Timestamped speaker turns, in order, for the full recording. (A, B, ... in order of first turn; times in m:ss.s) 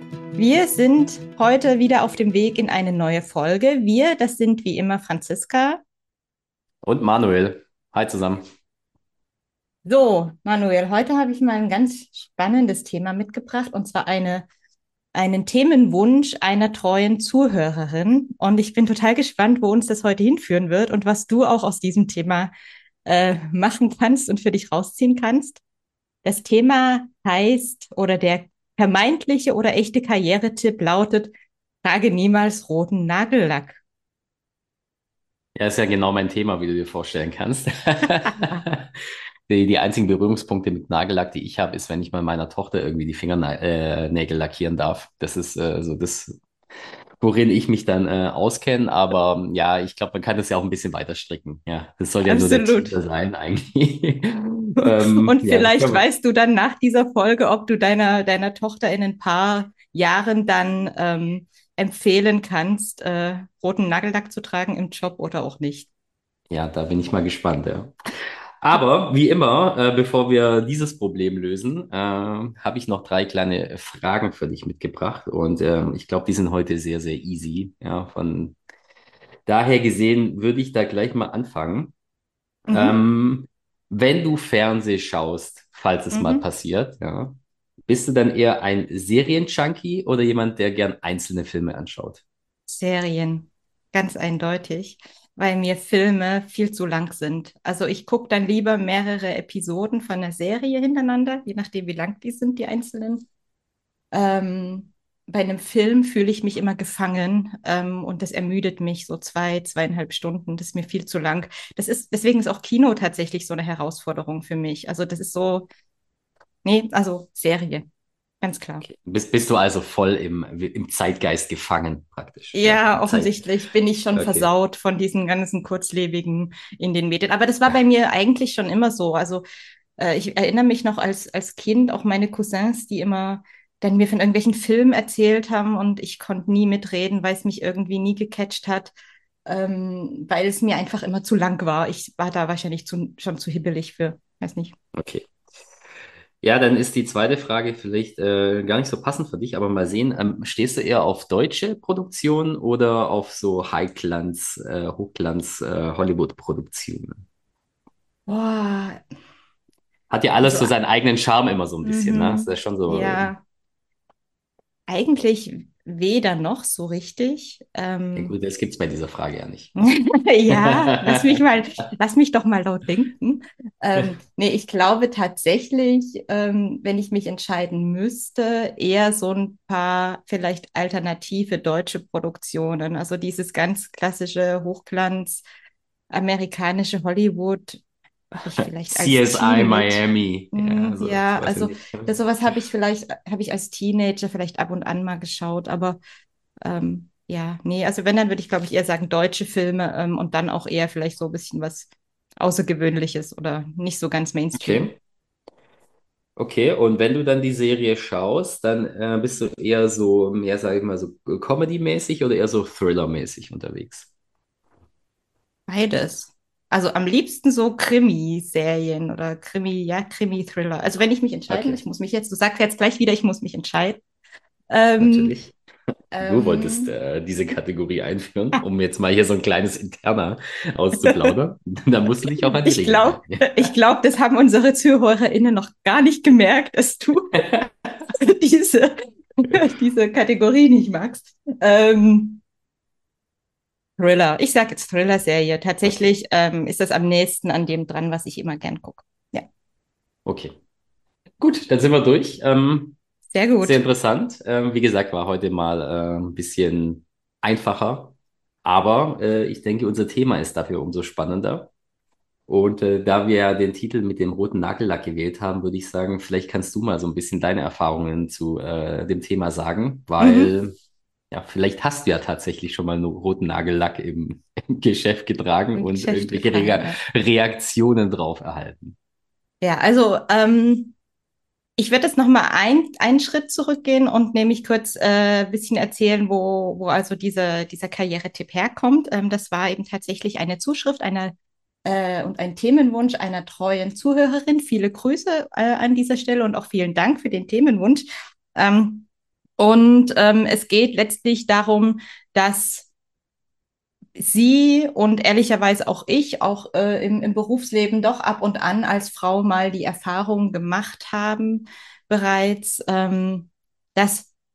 0:00.4-0:05.8 A
0:06.8-0:08.5 B
0:09.8-0:14.5 A
0:15.1-0:22.5 A
0:23.0-0:25.6 A
0:26.2-0:31.3 A
0:31.8-0:33.8 A
0:35.6-0:46.4 B
0:47.2-0:56.0 B
0:52.2-0:53.0 A
0:54.8-1:05.9 A
1:06.5-1:07.9 B
1:08.6-1:18.6 B
1:19.5-1:21.9 B
1:22.7-1:23.0 A
1:22.7-1:32.2 B
1:26.1-1:26.4 A
1:32.7-1:43.2 A
1:44.1-1:55.7 A
1:56.6-1:57.9 A
1:58.4-1:58.8 A
1:58.8-2:03.4 B
2:02.5-2:09.4 A
2:04.1-2:04.5 B
2:10.0-2:18.9 A
2:19.4-2:24.8 A
2:24.9-2:25.3 B
2:26.4-2:37.2 B
2:38.3-2:39.0 A
2:40.1-2:43.3 B
2:40.4-2:40.7 A
2:41.8-2:43.4 A
2:44.9-2:48.3 A
2:48.2-2:49.9 B
2:49.8-3:05.4 A
2:50.5-2:51.4 B
3:06.1-3:16.0 A
3:08.9-3:12.2 B
3:16.6-3:24.9 A
3:24.5-3:24.9 B
3:26.4-3:34.1 B
3:35.7-3:44.0 A
3:41.5-3:41.8 B
3:44.7-3:45.4 A
3:45.0-3:45.5 B
3:46.1-3:46.9 A
3:46.2-3:53.5 B
3:51.0-3:51.3 A
3:52.4-4:02.4 A
4:04.0-4:09.5 A
4:10.2-4:10.6 B
4:11.4-4:13.0 B
4:13.3-4:13.8 A
4:13.6-4:18.1 B
4:18.6-4:21.7 B
4:22.5-4:30.8 B
4:30.2-4:30.5 A
4:31.3-4:39.0 B
4:35.8-4:37.0 A
4:39.6-4:40.9 A
4:41.8-4:51.3 A
4:51.8-4:59.1 A
4:59.6-5:02.9 A
5:04.2-5:14.3 A